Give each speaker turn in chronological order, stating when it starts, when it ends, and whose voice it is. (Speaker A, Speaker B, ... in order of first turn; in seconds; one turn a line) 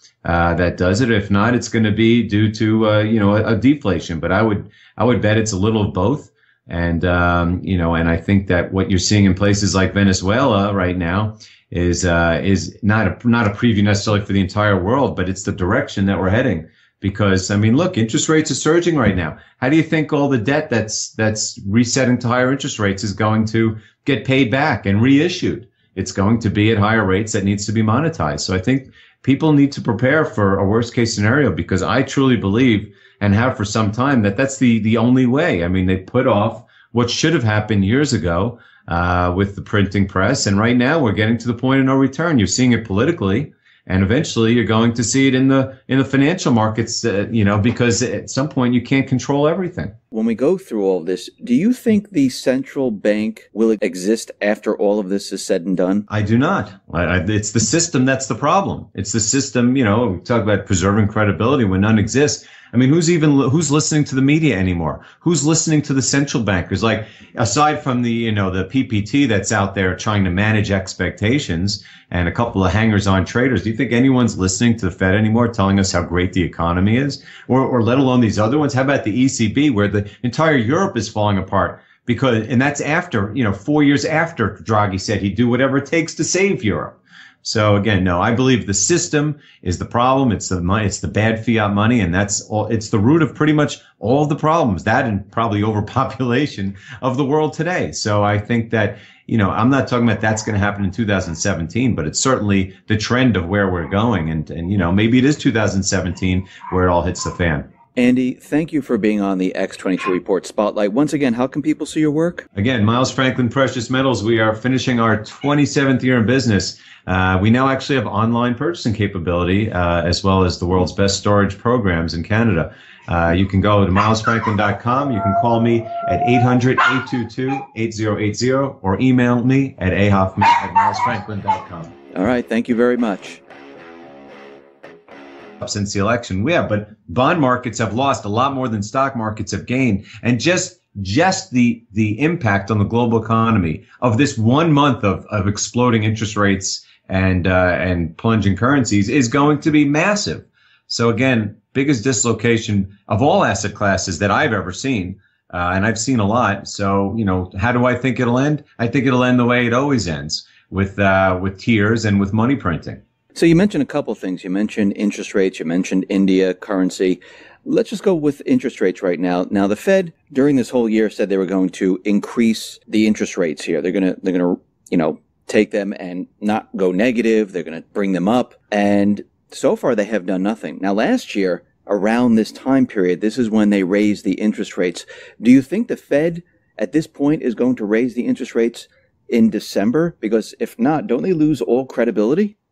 Speaker A: 0.2-49.9
Speaker B: 50.1-56.1
Speaker A: 56.1-107.7
Speaker B: 108.0-112.5
Speaker A: 112.5-131.9
Speaker B: 132.1-133.4
Speaker A: 135.6-163.0
Speaker B: 163.3-192.5